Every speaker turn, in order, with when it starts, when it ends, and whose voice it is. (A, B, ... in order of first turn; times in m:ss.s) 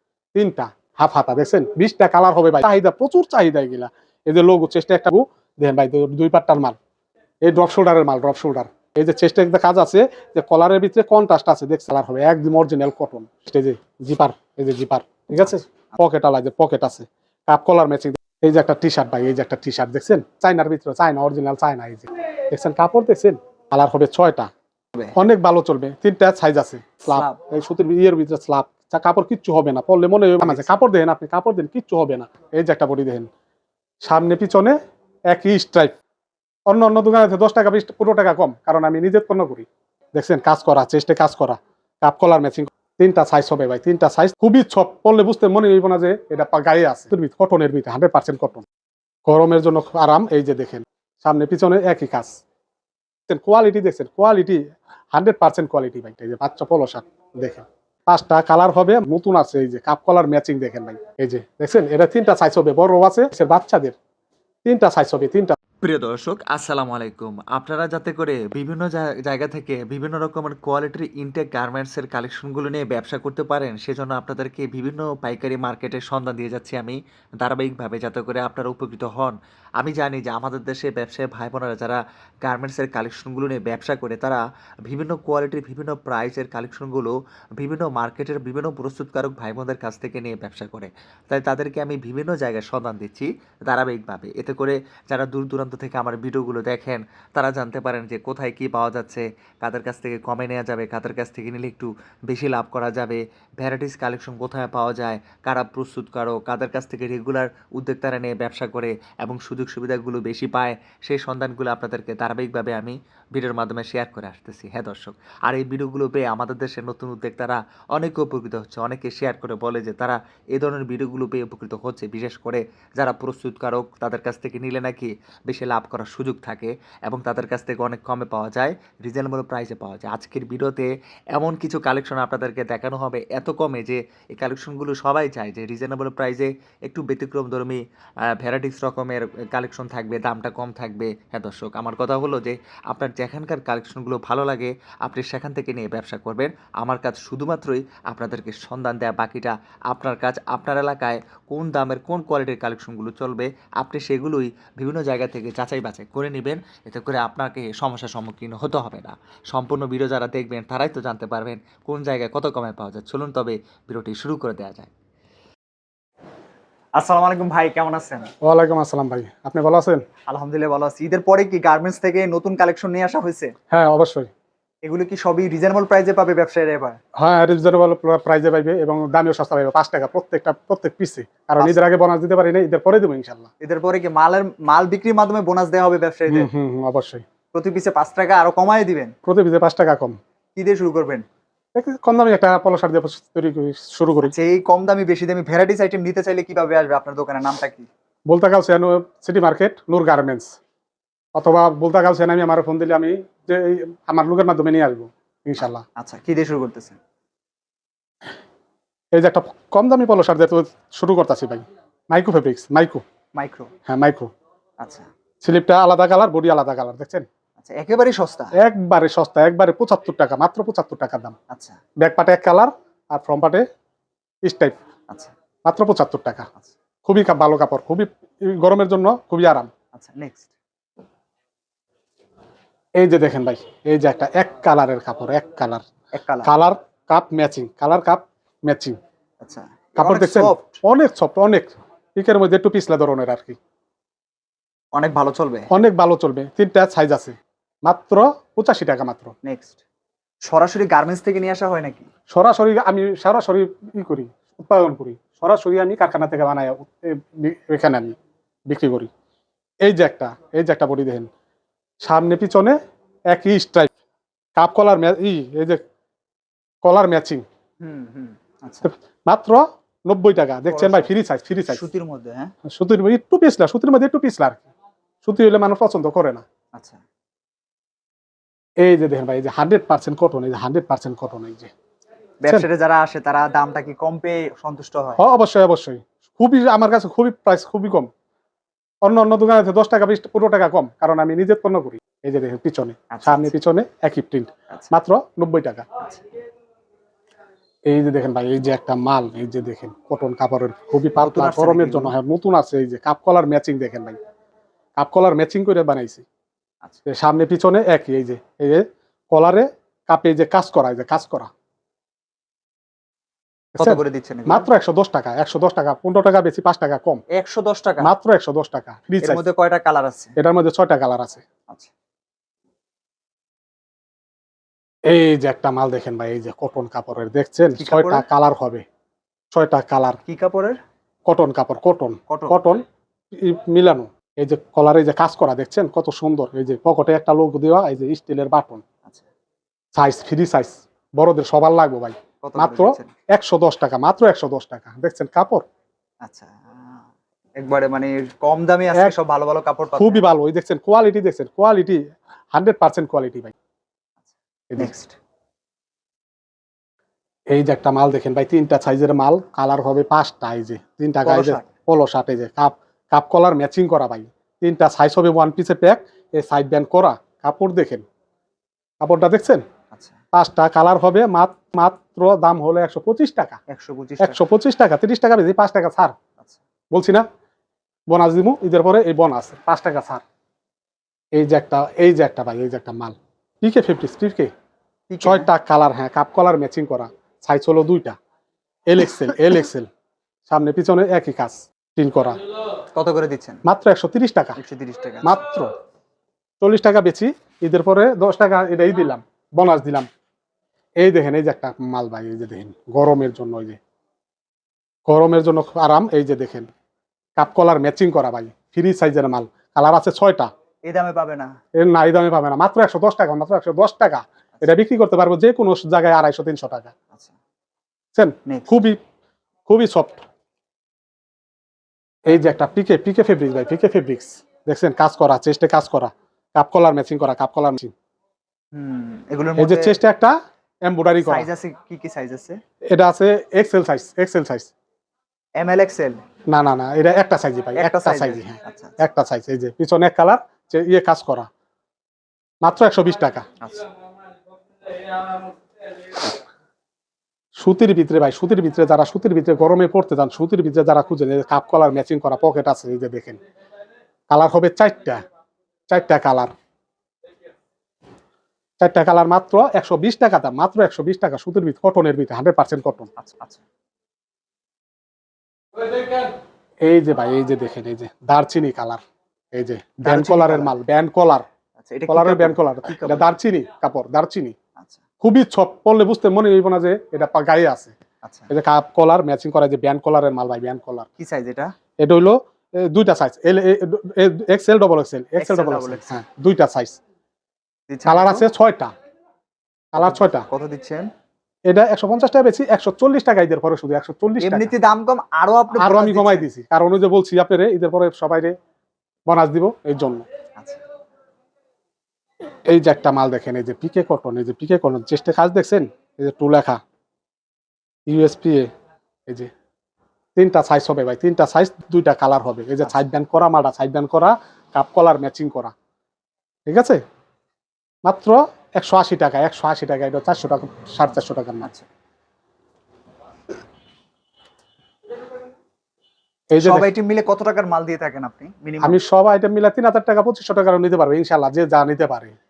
0:00.3-0:06.8 A
0:07.4-0:24.5 A
0:25.2-0:33.3 A
0:27.1-0:27.4 B
0:30.4-0:30.7 B
0:34.0-0:34.8 A
0:35.3-0:36.0 A
0:36.7-0:48.6 A
0:49.2-0:52.4 A
0:53.3-0:54.6 A
0:55.1-1:04.0 A
1:04.6-1:05.6 A
1:05.8-2:17.8 C
2:18.3-2:44.9 C
2:47.0-2:48.3 B
2:48.4-2:50.0 A
2:50.3-2:53.5 B
2:53.7-2:54.3 A
2:54.8-2:57.0 B
2:57.2-3:03.5 A
3:03.6-3:06.5 B
3:06.3-3:07.2 A
3:07.5-3:09.1 B
3:09.2-3:10.2 A
3:10.5-3:11.2 B
3:11.7-3:14.3 A
3:14.2-3:17.9 B
3:18.3-3:20.5 A
3:21.3-3:25.8 A
3:26.0-3:27.0 B
3:29.1-3:33.0 A
3:33.4-3:33.7 B
3:33.8-3:34.3 A
3:34.8-3:35.1 B
3:35.4-3:37.2 A
3:37.6-3:38.5 B
3:38.6-3:41.3 A
3:41.5-3:41.8 B
3:42.0-3:43.6 A
3:44.4-3:44.8 A
3:45.6-3:46.5 A
3:47.0-3:49.7 A
3:49.9-3:50.5 B
3:53.0-3:55.8 A
3:56.1-3:56.5 B
3:56.4-3:59.0 A
3:59.4-4:00.8 B
4:00.0-4:03.6 A
4:04.9-4:05.7 B
4:05.7-4:09.3 A
4:09.4-4:09.8 B
4:10.4-4:12.1 B
4:12.3-4:18.1 A
4:18.7-4:19.1 A
4:19.8-4:21.3 A
4:22.0-4:22.8 A
4:23.3-4:23.9 A
4:24.6-4:25.8 A
4:26.8-4:27.4 A
4:27.8-4:28.8 B
4:28.8-4:31.9 A
4:30.7-4:31.1 B
4:31.7-4:32.5 B
4:32.6-4:34.6 A
4:35.2-4:36.4 A
4:36.7-4:37.0 B
4:38.8-4:41.7 A
4:42.4-4:45.2 B
4:45.2-4:48.1 A
4:49.0-4:56.0 A
4:53.1-4:53.5 B
4:57.9-5:04.2 A
5:01.2-5:02.1 B
5:05.0-5:06.2 A
5:07.1-5:11.5 A
5:13.8-5:17.2 A
5:13.8-5:14.6 B
5:17.4-5:18.1 B
5:18.0-5:19.4 A
5:19.3-5:20.3 B
5:20.4-5:21.4 A
5:25.1-5:28.8 A
5:27.8-5:28.2 B
5:29.5-5:30.2 A
5:30.2-5:30.8 B
5:31.3-5:32.8 A
5:33.3-5:38.8 A
5:39.9-5:45.6 A
5:42.4-5:43.1 B
5:46.2-5:47.0 B
5:47.6-5:50.2 B
5:50.0-5:52.0 A
5:52.5-5:53.5 A
5:54.8-5:55.1 B
5:57.5-6:08.0 A
6:01.2-6:01.6 B
6:09.0-6:09.6 A
6:10.3-6:13.6 A
6:13.7-6:14.3 B
6:14.2-6:16.1 A
6:16.9-6:17.2 A
6:18.1-6:20.2 A
6:21.3-6:24.5 A
6:25.1-6:25.4 B
6:25.2-6:28.2 A
6:28.9-6:29.9 A
6:30.5-6:32.4 A
6:32.9-6:33.6 B
6:33.6-6:34.6 A
6:34.6-6:35.2 B
6:35.2-6:35.7 A
6:36.6-6:40.1 A
6:41.0-6:43.8 A
6:45.1-6:46.7 A
6:47.4-6:50.5 A
6:50.9-6:51.5 B
6:51.8-6:56.9 A
6:58.1-6:59.0 A
6:58.5-6:58.8 B
6:59.7-7:00.2 A
7:02.3-7:07.9 A
7:08.7-7:10.0 B
7:09.6-7:10.3 A
7:10.9-7:11.5 A
7:11.3-7:12.6 B
7:12.9-7:14.7 A
7:15.6-7:16.2 B
7:16.5-7:21.5 A
7:17.8-7:18.9 B
7:22.6-7:23.5 A
7:27.6-7:33.4 A
7:34.3-7:35.2 A
7:35.9-7:36.5 A
7:38.8-7:43.1 A
7:43.2-7:43.6 B
7:46.8-7:49.0 A
7:49.5-7:51.4 A
7:50.0-7:50.7 B
7:51.8-7:53.3 B
7:52.1-7:54.5 A
7:55.2-7:57.9 A
7:58.2-7:58.5 B
7:58.5-8:01.1 A
8:01.2-8:01.7 B
8:02.0-8:07.0 A
8:05.4-8:06.1 B
8:07.9-8:08.4 B
8:08.0-8:08.9 A
8:09.9-8:10.5 A
8:10.0-8:11.1 B
8:11.7-8:14.7 A
8:14.4-8:16.4 B
8:15.7-8:18.5 A
8:19.3-8:20.2 A
8:22.7-8:26.8 A
8:28.1-8:28.7 A
8:30.4-8:35.7 A
8:36.7-8:37.0 A
8:38.0-8:41.7 A
8:46.5-8:46.9 A
8:46.6-8:49.0 B
8:48.8-8:52.3 A